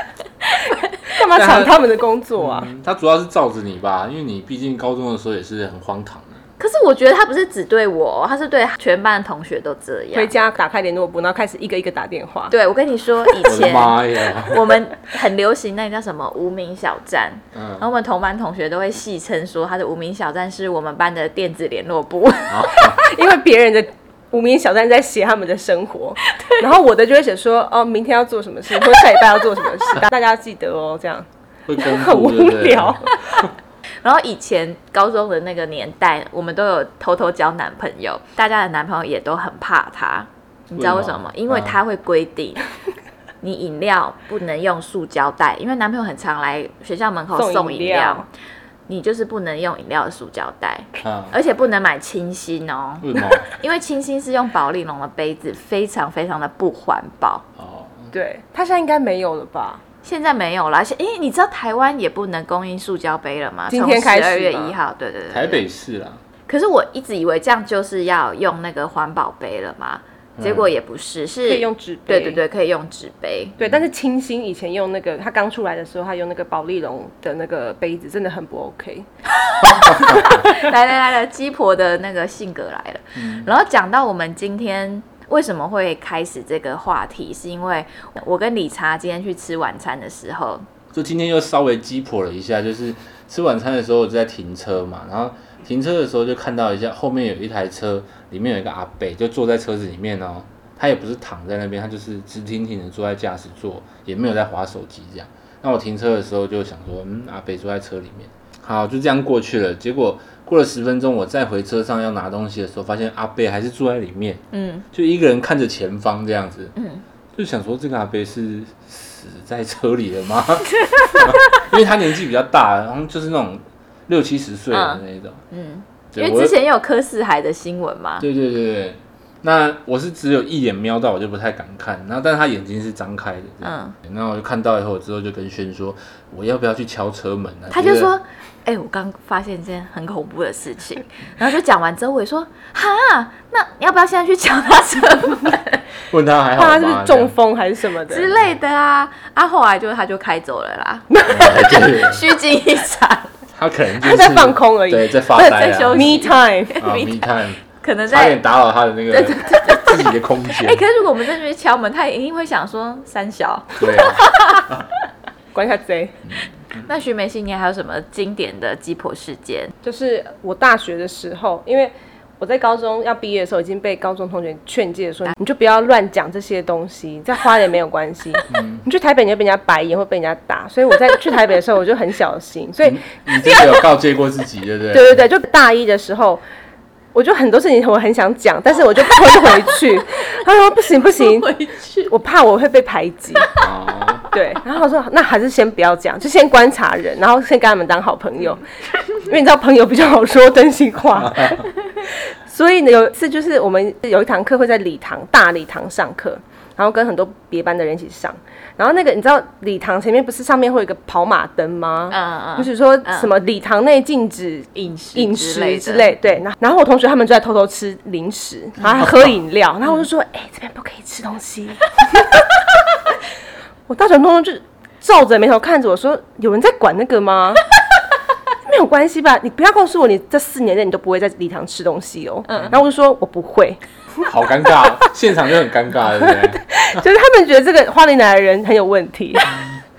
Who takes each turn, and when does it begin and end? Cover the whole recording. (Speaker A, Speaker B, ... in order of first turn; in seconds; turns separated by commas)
Speaker A: 0.5-1.1, Speaker B: 1.1-2.7, Speaker C: 1.4-1.8, Speaker C: 2.4-6.4, Speaker A: 6.6-10.3, Speaker B: 10.1-12.5, Speaker A: 12.5-23.0, Speaker C: 13.4-14.7, Speaker C: 17.5-17.8, Speaker C: 22.5-23.0, Speaker B: 23.0-31.3, Speaker C: 31.7-33.0, Speaker B: 31.8-33.1, Speaker A: 34.0-42.6, Speaker C: 40.8-41.8, Speaker A: 43.4-48.3, Speaker B: 47.3-48.3, Speaker A: 48.9-57.4, Speaker C: 51.0-51.3, Speaker C: 53.0-53.5, Speaker C: 57.6-58.1, Speaker B: 58.1-59.8, Speaker A: 60.0-65.6, Speaker B: 63.7-64.8, Speaker C: 65.3-66.2, Speaker A: 66.5-73.6, Speaker C: 70.4-70.7, Speaker B: 71.5-72.4, Speaker B: 73.6-79.1, Speaker A: 79.4-90.7, Speaker C: 79.7-80.4, Speaker C: 83.2-83.5, Speaker C: 90.9-116.7, Speaker A: 114.5-114.9, Speaker A: 116.8-117.0, Speaker C: 117.3-125.4, Speaker A: 120.8-121.6, Speaker A: 124.7-128.2, Speaker C: 126.1-126.6, Speaker C: 128.2-138.1, Speaker A: 133.6-133.9, Speaker A: 137.7-145.8, Speaker C: 146.1-147.3, Speaker B: 146.6-148.3, Speaker A: 148.1-153.3, Speaker C: 151.3-152.2, Speaker C: 153.5-156.2, Speaker B: 154.0-156.8, Speaker A: 155.4-158.4, Speaker C: 156.8-160.8, Speaker A: 159.1-164.7, Speaker C: 163.8-164.8, Speaker B: 165.5-166.2, Speaker C: 166.3-166.9, Speaker A: 166.9-169.7, Speaker B: 169.8-183.0, Speaker C: 178.5-178.8, Speaker C: 182.8-185.2, Speaker B: 184.9-186.4, Speaker B: 187.1-191.5, Speaker A: 191.2-192.1, Speaker B: 192.1-193.5, Speaker C: 193.6-194.2, Speaker B: 194.3-198.6, Speaker B: 199.2-222.6, Speaker C: 201.3-201.6, Speaker A: 212.1-213.3, Speaker A: 214.8-216.1, Speaker B: 223.9-227.6, Speaker B: 228.7-234.3, Speaker C: 234.2-237.0, Speaker B: 236.2-239.5